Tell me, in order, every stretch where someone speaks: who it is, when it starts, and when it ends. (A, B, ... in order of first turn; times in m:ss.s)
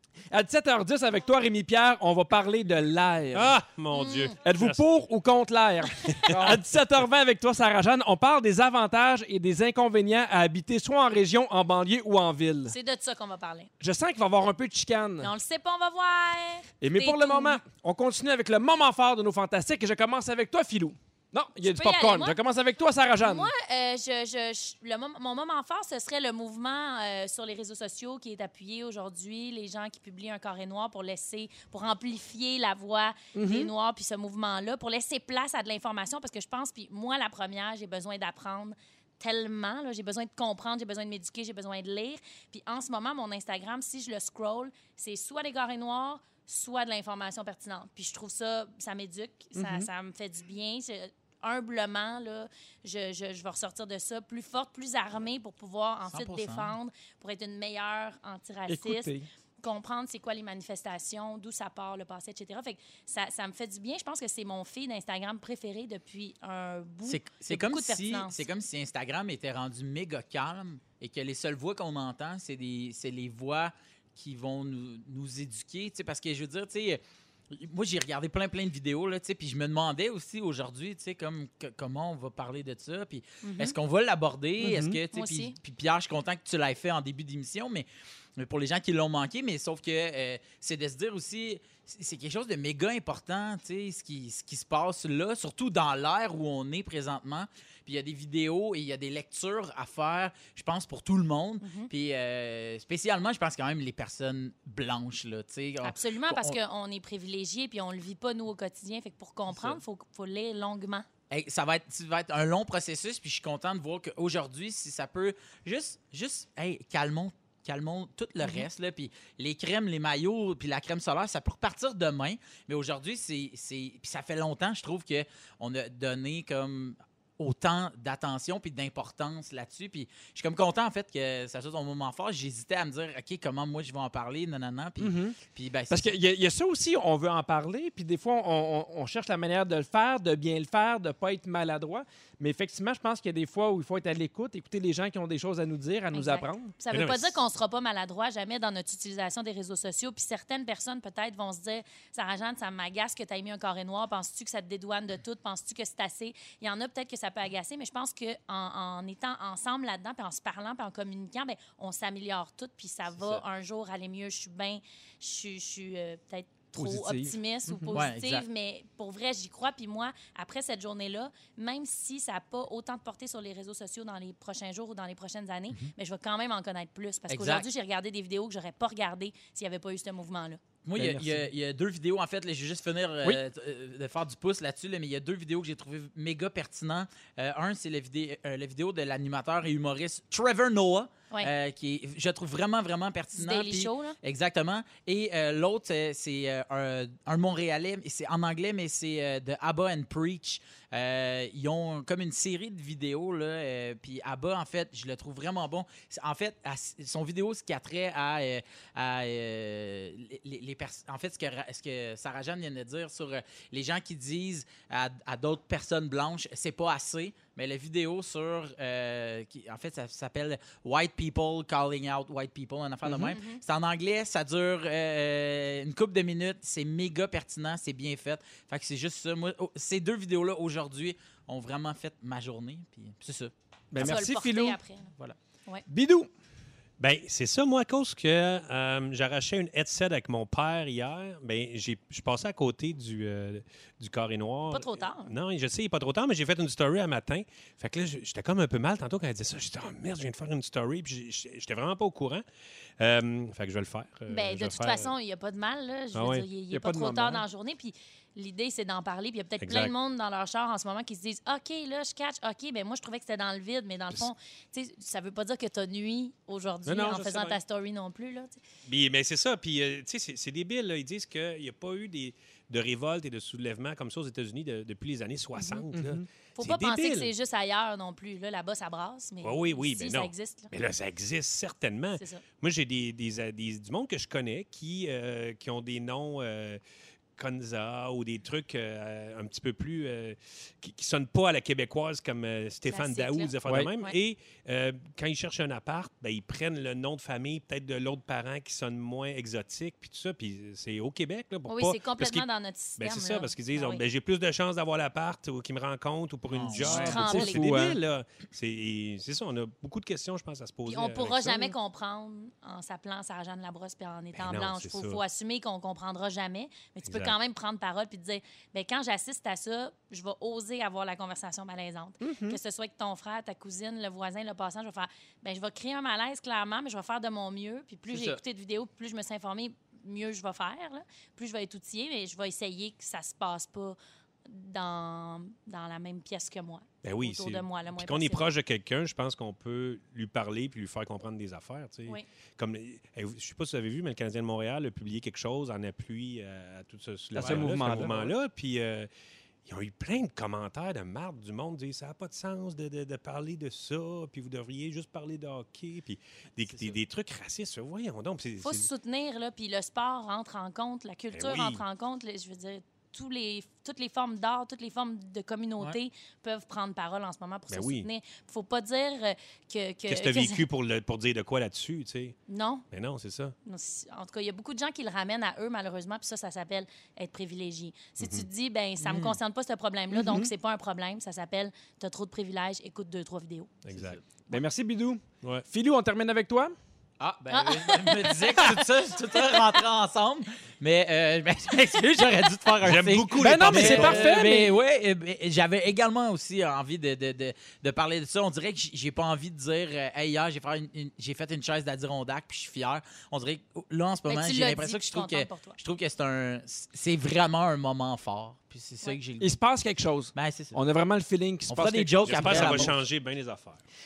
0:00.3-0:03.6 A
0:03.3-0:04.8 B
0:03.9-0:04.3 C
0:04.4-0:12.8 A
0:06.2-0:06.5 B
0:06.3-0:06.6 D
0:12.7-0:13.7 C
0:13.8-0:15.3 A
0:15.2-0:17.6 C
0:16.8-0:23.5 A
0:21.6-0:22.4 C
0:23.2-1:08.4 C
0:33.4-0:33.7 A
0:49.6-0:49.9 A
0:56.1-0:56.8 D
0:58.7-0:59.3 A
1:07.1-1:27.9 D
1:23.4-1:23.8 C
1:24.6-1:25.0 A
1:25.1-1:25.6 C
1:28.4-1:46.6 D
1:41.6-1:41.9 C
1:45.8-1:51.1 C
1:49.5-1:49.8 D
1:51.3-2:16.1 D
1:58.4-1:58.7 C
2:15.0-2:15.4 A
2:15.9-2:26.8 A
2:26.1-3:00.6 C
2:26.9-2:27.4 B
2:46.8-2:47.9 A
2:47.9-2:48.4 D
2:57.3-2:57.7 D
3:00.8-3:53.5 D
3:01.0-3:01.5 A
3:13.3-3:14.2 C
3:43.1-3:43.3 A
3:43.3-3:43.6 C
3:53.9-3:54.8 A
3:54.0-3:55.1 C
3:55.9-3:56.3 A
3:57.0-4:12.4 B
4:04.7-4:05.3 C
4:13.0-4:15.1 B
4:14.3-4:28.6 C
4:16.1-4:16.5 B
4:16.7-4:17.4 A
4:19.6-4:19.9 B
4:26.8-4:27.6 B
4:28.9-4:37.3 B
4:35.9-4:36.3 A
4:36.6-4:40.7 C
4:39.4-4:46.8 B
4:42.2-4:42.4 C
4:47.4-5:02.5 B
4:52.9-4:54.2 C
4:53.6-4:53.9 A
5:01.7-5:04.0 C
5:03.0-5:11.7 B
5:06.5-5:07.2 D
5:06.8-5:07.7 C
5:07.1-5:08.0 A
5:10.9-5:38.5 C
5:14.4-5:15.2 B
5:17.1-5:17.4 B
5:22.2-5:22.6 A
5:28.1-5:28.4 A
5:37.0-5:49.1 B
5:47.4-5:48.3 A
5:49.7-5:58.9 B
5:58.6-6:10.6 C
6:01.3-6:01.8 B
6:07.7-6:08.1 B
6:10.1-6:12.4 B
6:12.5-6:12.8 C
6:12.9-6:13.6 B
6:13.6-6:23.7 C
6:18.2-6:18.5 B
6:19.0-6:19.4 D
6:20.1-6:20.5 A
6:23.8-6:24.2 B
6:23.9-6:24.2 D
6:24.5-6:26.8 A
6:27.2-6:49.5 D
6:27.5-6:28.6 C
6:32.8-6:34.4 B
6:33.4-6:34.8 A
6:44.3-6:45.8 C
6:49.4-6:52.9 A
6:50.4-6:50.8 D
6:51.7-6:53.0 D
6:52.2-6:53.8 B